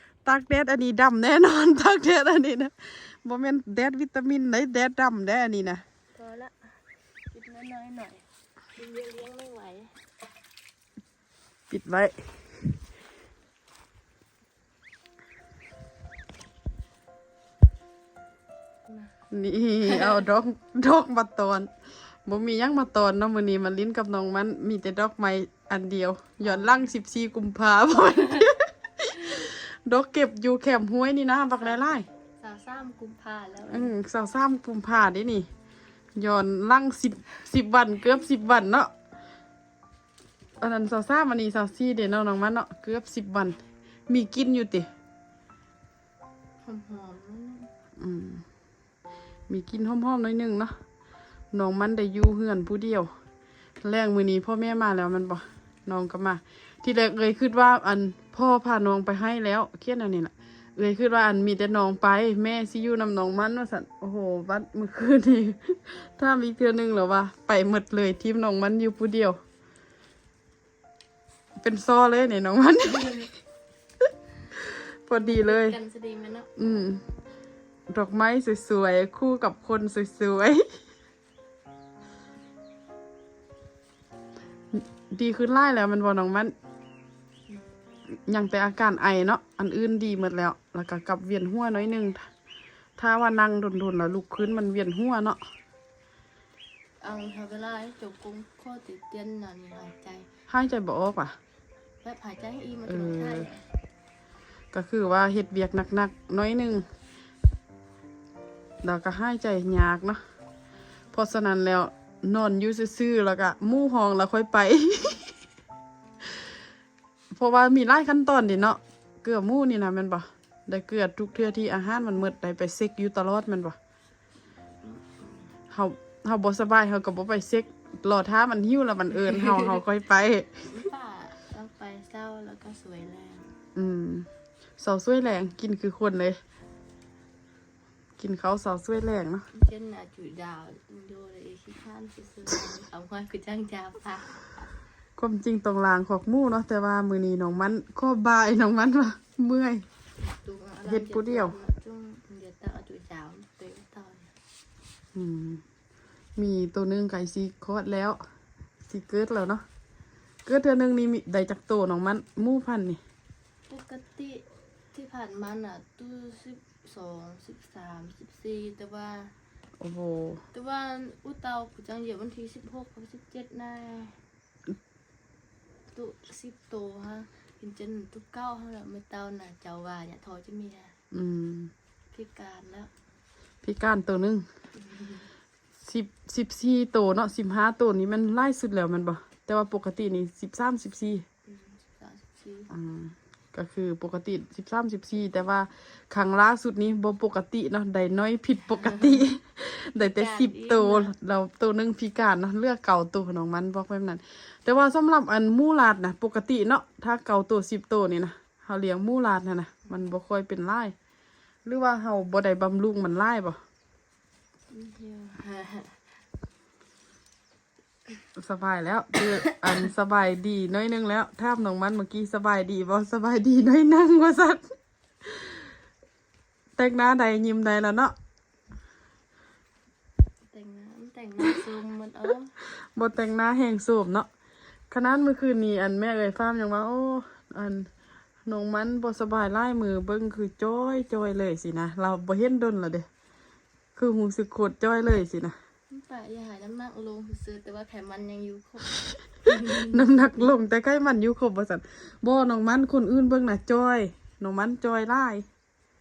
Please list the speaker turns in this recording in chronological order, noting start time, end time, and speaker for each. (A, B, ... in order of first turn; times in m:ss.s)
0:00.2-0:05.8 A
0:06.1-0:06.5 B
0:07.3-0:10.0 B
0:11.7-0:12.8 A
0:19.3-0:21.7 A
0:22.2-0:32.1 A
0:32.4-0:33.9 B
0:33.7-0:35.5 A
0:36.2-0:38.9 A
0:40.6-0:44.9 A
0:46.6-0:47.7 B
0:48.0-0:48.4 A
0:49.5-0:50.7 A
0:51.5-0:53.1 A
0:53.8-1:09.4 A
1:11.6-1:13.3 A
1:14.6-1:15.8 A
1:15.1-1:16.7 B
1:16.6-1:17.0 A
1:17.9-1:20.7 A
1:24.7-1:26.5 A
1:28.2-1:32.3 A
1:33.0-1:35.4 A
1:37.0-1:40.3 B
1:40.5-1:41.4 A
1:42.0-1:43.6 B
1:42.9-1:43.5 A
1:44.7-1:46.9 A
1:48.8-1:50.2 A
1:51.1-1:55.3 A
1:57.3-2:03.8 A
2:04.8-2:05.5 B
2:05.7-2:10.7 A
2:09.3-2:09.6 B
2:10.7-2:13.6 B
2:13.7-2:14.3 A
2:14.8-2:16.4 A
2:18.2-2:19.5 A
2:19.5-2:24.7 B
2:25.2-2:29.8 A
2:30.2-2:34.3 B
2:30.9-2:31.6 A
2:35.1-2:35.6 A
2:36.4-2:38.2 A
2:38.9-2:39.6 A
2:40.4-2:43.0 A
2:43.7-2:49.3 B
2:49.8-2:50.4 A
2:50.5-2:54.2 B
2:55.9-3:00.9 B
3:01.1-3:01.7 A
3:02.1-3:02.9 B
3:03.6-3:04.4 A
3:04.8-3:05.3 B
3:05.8-3:11.2 A
3:11.4-3:12.7 B
3:12.7-3:30.9 A
3:20.0-3:21.1 B
3:31.6-3:33.6 A
3:34.7-3:36.0 B
3:38.4-3:44.7 A
3:45.2-3:45.6 A
3:46.8-3:48.1 A
3:50.5-3:52.5 B
3:52.7-3:54.3 A
3:54.9-3:57.9 A
3:58.4-4:03.0 A
4:04.0-4:05.6 A
4:05.9-4:10.5 B
4:09.5-4:15.4 A